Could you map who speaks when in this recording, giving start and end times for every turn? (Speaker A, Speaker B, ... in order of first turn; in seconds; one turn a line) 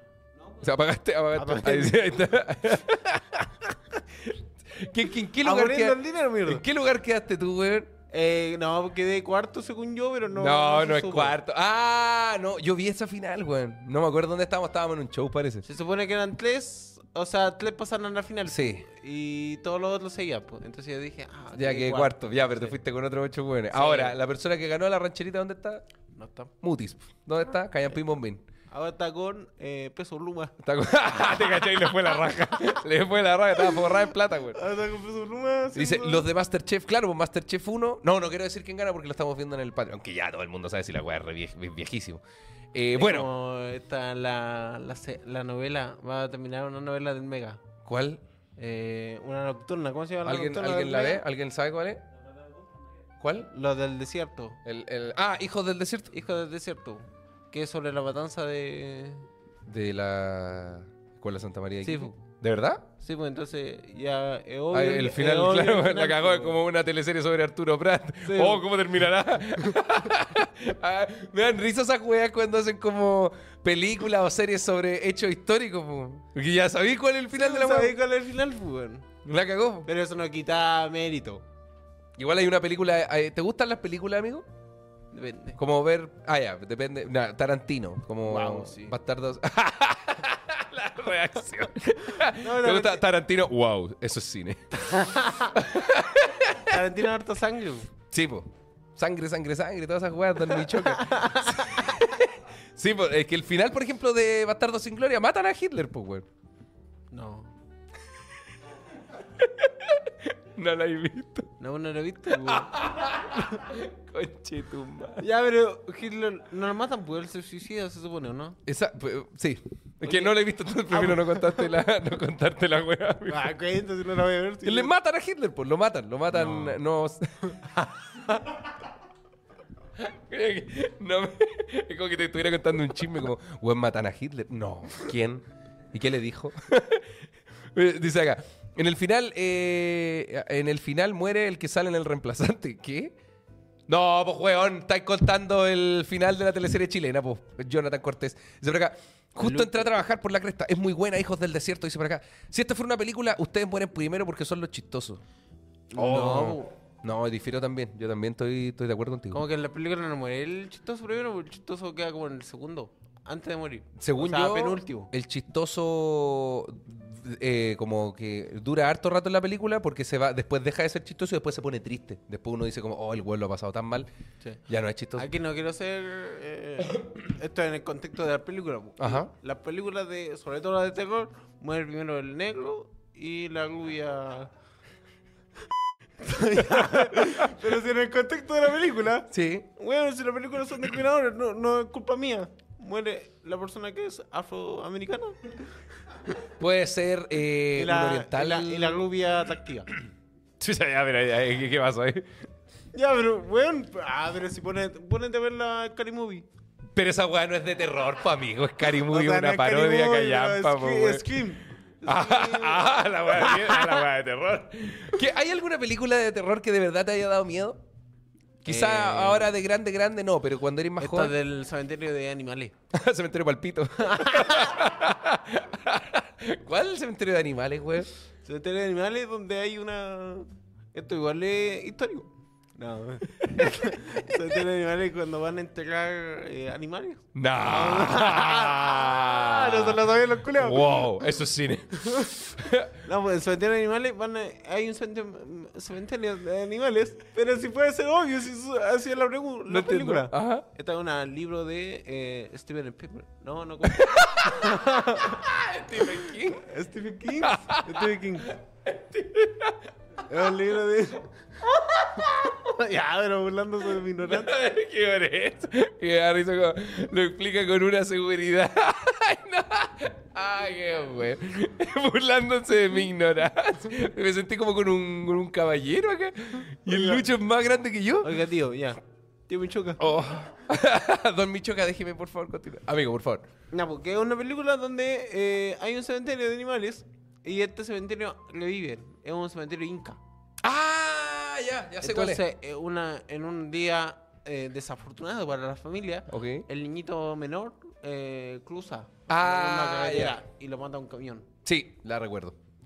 Speaker A: 0.4-0.7
Speaker B: 0.6-7.9
Speaker A: 1.3-2.1
Speaker A: 5.4-6.6
Speaker A: 8.1-11.4
Speaker B: 10.4-15.7
Speaker A: 15.7-22.8
Speaker B: 18.5-18.9
Speaker B: 21.5-25.8
Speaker A: 23.7-24.1
Speaker A: 26.1-26.5
Speaker B: 26.6-28.4
Speaker A: 28.7-30.6
Speaker B: 30.6-34.6
Speaker A: 31.3-31.9
Speaker A: 34.5-36.3
Speaker B: 35.7-43.3
Speaker A: 43.0-47.6
Speaker B: 47.9-48.2
Speaker A: 48.6-51.2
Speaker B: 50.2-52.0
Speaker B: 53.2-53.5
Speaker A: 53.5-54.6
Speaker B: 54.6-56.1
Speaker A: 56.1-59.3
Speaker B: 59.7-62.9
Speaker A: 61.8-62.2
Speaker A: 63.0-66.6
Speaker B: 64.7-78.0
Speaker A: 68.2-68.6
Speaker A: 77.3-79.1
Speaker B: 79.2-79.9
Speaker A: 79.8-81.5
Speaker B: 82.2-84.5
Speaker A: 85.1-85.6
Speaker B: 85.6-94.8
Speaker A: 88.2-89.0
Speaker A: 92.3-93.0
Speaker A: 94.7-95.6
Speaker B: 95.5-96.8
Speaker A: 96.7-97.9
Speaker B: 98.1-106.3
Speaker A: 100.5-102.1
Speaker A: 107.1-107.5
Speaker B: 109.4-111.5
Speaker A: 111.6-112.8
Speaker B: 112.3-115.2
Speaker A: 115.2-118.6
Speaker B: 118.7-123.5
Speaker A: 120.0-120.4
Speaker A: 120.9-121.7
Speaker A: 123.3-124.9
Speaker B: 124.6-127.3
Speaker A: 126.3-126.8
Speaker A: 127.5-128.6
Speaker B: 130.0-137.2
Speaker B: 137.7-143.2
Speaker B: 143.9-155.2
Speaker A: 149.4-149.9
Speaker A: 155.9-156.7
Speaker B: 155.9-159.4
Speaker A: 159.3-165.1
Speaker B: 164.0-174.1
Speaker B: 174.7-175.3
Speaker A: 175.2-184.5
Speaker B: 179.0-179.3
Speaker A: 186.2-195.7
Speaker B: 186.6-187.7
Speaker B: 189.3-189.7
Speaker B: 196.6-199.0
Speaker A: 197.7-199.9
Speaker B: 200.6-202.3
Speaker A: 202.9-206.5
Speaker B: 206.9-211.4
Speaker A: 209.0-214.1
Speaker B: 212.1-217.8
Speaker B: 218.6-221.3
Speaker A: 218.7-219.5
Speaker A: 221.0-222.8
Speaker B: 222.9-228.1
Speaker A: 224.0-224.8
Speaker A: 228.4-241.1
Speaker B: 233.5-234.2
Speaker B: 237.3-240.0
Speaker B: 240.5-242.9
Speaker A: 242.0-242.4
Speaker A: 243.0-255.4
Speaker B: 249.7-250.7
Speaker B: 253.9-256.7
Speaker A: 256.0-258.6
Speaker B: 257.4-259.9
Speaker A: 260.3-261.3
Speaker A: 261.8-264.5
Speaker B: 264.2-278.4
Speaker A: 276.9-277.2
Speaker A: 278.2-280.0
Speaker B: 280.0-283.5
Speaker A: 283.7-290.2
Speaker B: 290.6-292.4
Speaker A: 292.0-301.5
Speaker B: 296.3-296.6
Speaker B: 299.3-300.4
Speaker B: 301.6-302.6